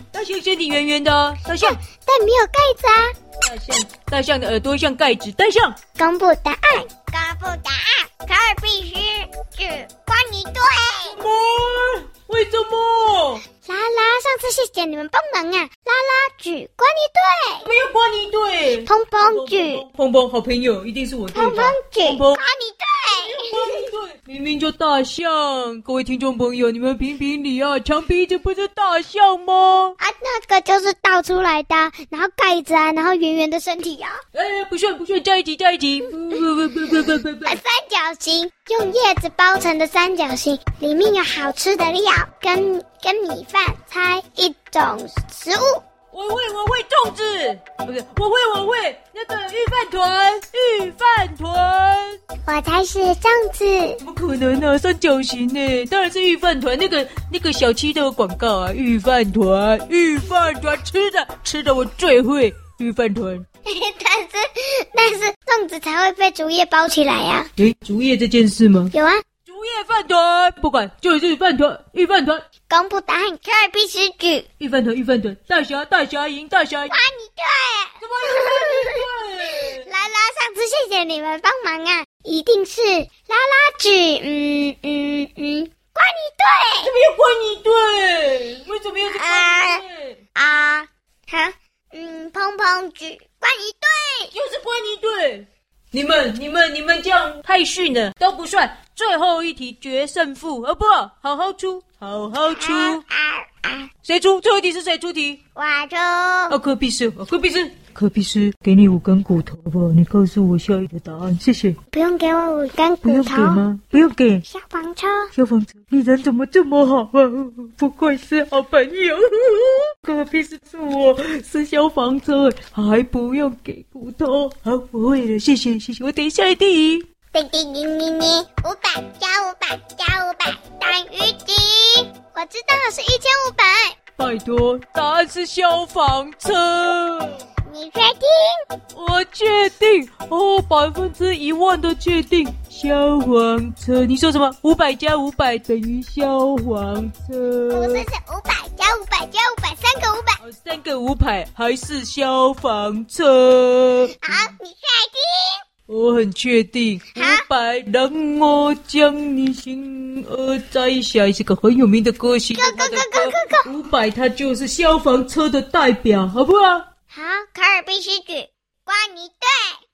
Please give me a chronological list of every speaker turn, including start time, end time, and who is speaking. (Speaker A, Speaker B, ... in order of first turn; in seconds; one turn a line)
Speaker A: 0.1-1.8
Speaker B: 1.6-3.1
Speaker A: 3.4-5.8
Speaker B: 6.0-11.2
Speaker A: 11.1-13.5
Speaker B: 13.6-17.7
Speaker A: 17.6-22.4
Speaker B: 18.9-19.9
Speaker B: 21.3-23.8
Speaker A: 23.1-30.0
Speaker B: 30.0-34.2
Speaker A: 34.3-37.6
Speaker B: 37.5-45.8
Speaker A: 46.1-52.2
Speaker B: 52.5-54.0
Speaker A: 54.0-63.5
Speaker B: 63.7-67.5
Speaker A: 67.6-68.9
Speaker B: 68.9-69.2
Speaker A: 69.5-72.5
Speaker B: 72.7-74.5
Speaker A: 74.6-77.1
Speaker B: 76.9-79.0
Speaker A: 78.0-79.9
Speaker B: 79.8-86.9
Speaker A: 86.8-90.2
Speaker B: 89.0-89.8
Speaker B: 90.3-94.3
Speaker A: 94.3-103.0
Speaker B: 102.5-103.9
Speaker A: 104.0-105.4
Speaker B: 105.5-106.6
Speaker A: 106.5-111.8
Speaker B: 111.9-113.7
Speaker A: 113.0-114.5
Speaker B: 114.5-115.3
Speaker A: 115.3-127.1
Speaker B: 127.3-134.0
Speaker A: 134.2-137.4
Speaker B: 137.7-138.6
Speaker A: 138.9-148.1
Speaker B: 147.7-150.4
Speaker A: 150.4-154.5
Speaker B: 154.2-155.6
Speaker A: 155.9-166.9
Speaker B: 157.2-157.4
Speaker B: 162.6-163.7
Speaker B: 167.1-169.8